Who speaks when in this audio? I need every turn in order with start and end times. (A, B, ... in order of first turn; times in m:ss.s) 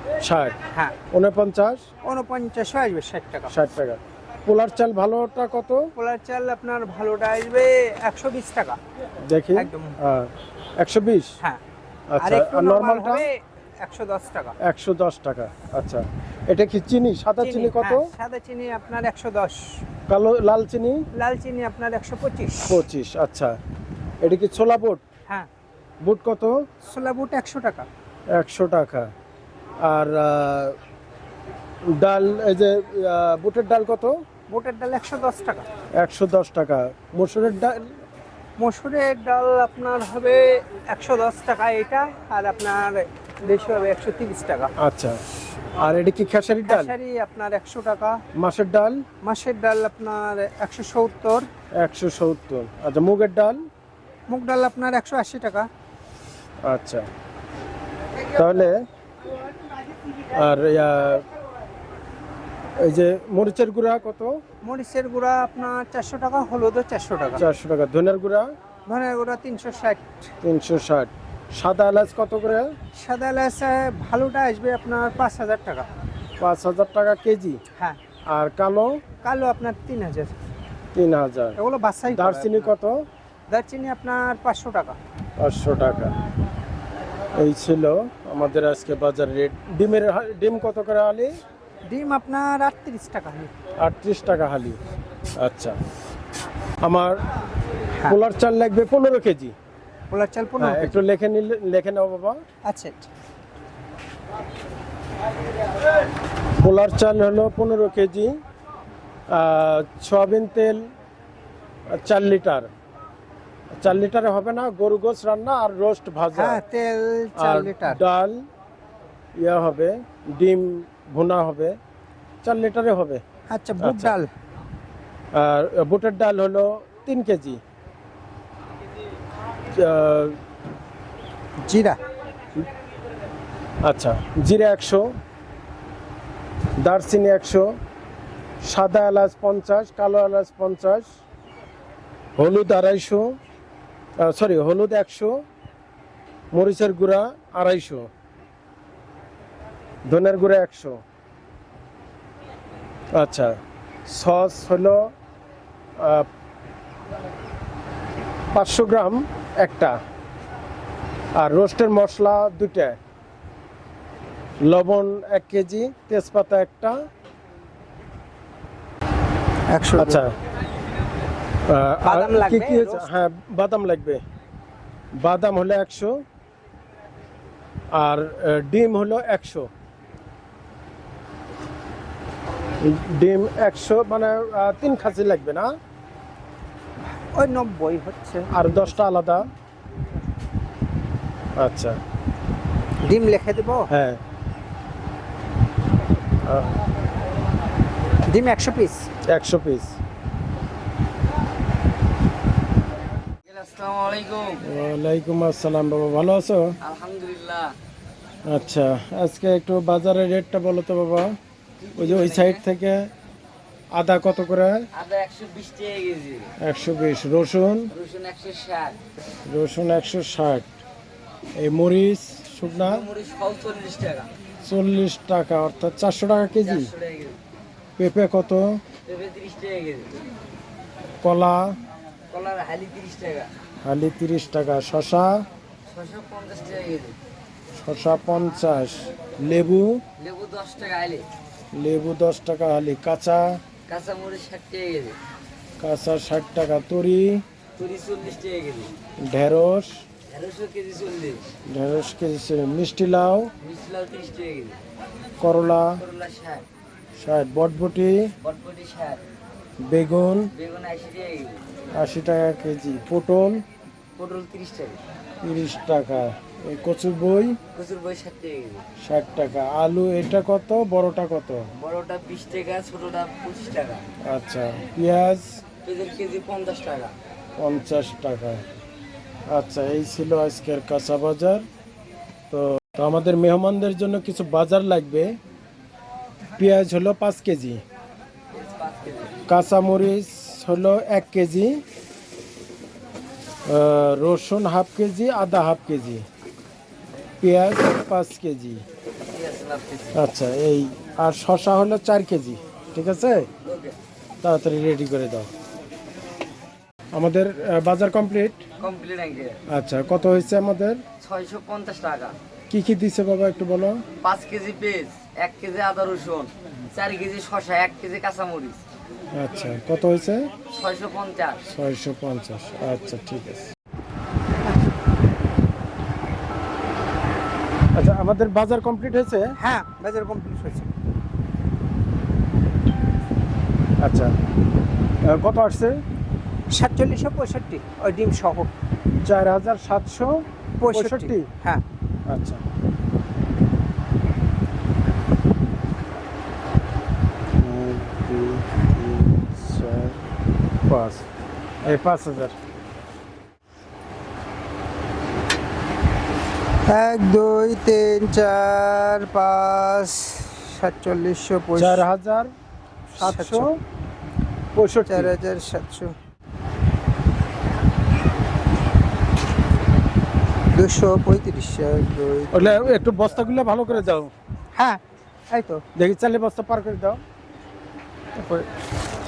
0:00.2-0:00.6 A
0:01.1-0:01.8 A
0:02.0-0:03.5 B
0:03.5-0:05.9 A
0:06.0-0:08.8 B
0:09.3-0:11.4 A
0:09.6-0:10.0 B
0:12.1-0:13.2 A
0:12.2-0:14.5 B
0:14.6-0:18.0 A
0:17.4-0:19.6 B
0:20.1-0:21.0 A
0:21.2-0:22.8 B
0:22.6-0:23.6 A
0:24.2-0:25.0 A
0:26.0-0:26.5 A
0:26.8-0:27.9 B
0:28.3-0:29.1 A
0:29.8-0:30.8 A
0:31.9-0:34.1 A
0:34.5-0:35.7 B
0:36.0-0:37.9 A
0:38.6-0:44.7 B
0:44.8-0:45.2 A
0:45.8-0:46.9 A
0:46.7-0:48.2 B
0:48.4-0:49.0 A
0:49.2-0:51.5 B
0:51.8-0:53.6 A
0:54.3-0:55.7 B
0:56.6-0:57.1 A
0:58.4-0:58.8 A
1:00.3-1:01.2 A
1:02.8-1:04.4 A
1:04.6-1:07.4 B
1:07.4-1:08.5 A
1:08.9-1:10.3 B
1:10.4-1:12.7 A
1:13.0-1:15.9 B
1:16.4-1:17.6 A
1:18.3-1:19.0 A
1:19.2-1:20.4 B
1:21.0-1:21.6 A
1:21.6-1:22.7 B
1:22.1-1:23.0 A
1:23.5-1:25.0 B
1:25.4-1:26.1 A
1:27.4-1:31.3 A
1:31.9-1:33.5 B
1:33.8-1:34.8 A
1:35.4-1:35.8 A
1:36.8-1:37.2 A
1:38.1-1:39.5 A
1:40.1-1:41.0 B
1:40.6-1:42.4 A
1:42.6-1:43.1 B
1:46.6-1:48.3 A
1:49.3-1:50.8 A
1:51.9-1:52.7 A
1:53.8-1:56.6 A
1:56.4-1:58.0 B
1:57.4-1:58.4 A
1:59.4-2:01.8 A
2:02.4-2:03.2 A
2:03.5-2:04.3 B
2:03.8-2:04.2 A
2:05.3-2:07.6 A
2:09.7-2:10.4 A
2:11.6-2:12.0 B
2:13.8-2:15.1 A
2:16.8-2:17.6 A
2:18.6-2:21.1 A
2:22.4-2:23.3 A
2:24.2-2:25.4 A
2:26.5-2:28.1 A
2:30.1-2:31.0 A
2:33.1-2:33.5 A
2:34.1-2:35.0 A
2:36.0-2:36.2 A
2:38.5-2:40.0 A
2:41.4-2:43.0 A
2:44.6-2:47.0 A
2:49.7-2:50.2 B
2:50.0-2:50.3 A
2:51.7-2:54.2 A
2:52.0-2:53.1 B
2:55.2-2:56.2 A
2:57.9-2:59.7 A
3:02.8-3:05.7 A
3:07.4-3:08.9 B
3:08.5-3:09.4 A
3:11.6-3:12.0 A
3:13.0-3:13.9 B
3:13.9-3:14.2 A
3:18.3-3:19.0 B
3:19.3-3:19.9 A
3:23.5-3:24.6 C
3:24.6-3:26.7 A
3:26.8-3:27.8 C
3:28.5-3:31.3 A
3:31.8-3:32.6 C
3:32.0-3:33.1 A
3:33.9-3:34.9 A
3:34.9-3:36.5 C
3:36.6-3:37.9 A
3:37.9-3:39.0 C
3:39.5-3:40.7 A
3:41.6-3:43.0 A
3:42.8-3:44.3 C
3:44.6-3:46.9 A
3:46.6-3:47.4 C
3:48.0-3:48.8 A
3:49.0-3:50.1 C
3:51.2-3:51.8 A
3:52.3-3:53.5 C
3:53.8-3:55.4 A
3:55.9-3:57.2 C
3:57.8-4:00.0 A
4:00.2-4:01.2 C
4:01.7-4:03.6 A
4:03.9-4:05.2 C
4:05.8-4:07.4 A
4:07.8-4:08.9 C
4:09.2-4:09.9 A
4:10.3-4:11.5 C
4:11.7-4:13.5 A
4:13.6-4:14.8 C
4:15.4-4:16.0 A
4:16.0-4:16.6 C
4:17.2-4:18.3 A
4:18.4-4:19.2 C
4:19.9-4:20.5 A
4:20.5-4:21.6 C
4:22.0-4:23.6 A
4:24.2-4:25.0 C
4:25.4-4:27.6 A
4:27.7-4:28.8 C
4:29.0-4:31.7 A
4:31.8-4:34.0 C
4:34.3-4:35.6 A
4:35.8-4:37.1 C
4:37.6-4:38.6 A
4:39.5-4:41.6 A
4:42.5-4:45.4 A
4:46.6-4:47.8 A
4:48.6-4:49.4 C
4:49.5-4:51.8 A
4:53.7-4:56.2 A
4:57.4-4:58.8 A
4:59.3-5:00.2 C
5:00.1-5:03.5 A
5:03.6-5:04.0 C
5:04.4-5:05.5 A
5:07.1-5:08.6 A
5:08.8-5:09.6 C
5:09.7-5:11.0 A
5:11.2-5:12.3 C
5:12.7-5:14.0 A
5:14.2-5:18.8 C
5:19.3-5:20.5 A
5:20.7-5:21.6 C
5:21.7-5:23.7 A
5:28.0-5:29.5 A
5:29.6-5:30.9 B
5:34.0-5:34.3 A
5:35.3-5:36.0 A
5:36.7-5:38.7 B
5:39.2-5:40.3 A
5:40.8-5:41.8 B
5:40.9-5:41.4 A
5:42.3-5:42.6 A
5:47.6-5:50.2 A
5:50.9-5:51.2 A
5:51.8-5:52.5 A
5:56.9-6:02.0 B
6:01.8-6:02.5 A
6:03.2-6:03.7 A
6:03.2-6:03.7 B
6:04.8-6:05.3 A
6:05.1-6:06.1 B
6:10.7-6:12.9 B
6:12.5-6:14.3 A
6:15.5-6:15.8 B
6:16.0-6:17.2 A
6:18.4-6:18.7 A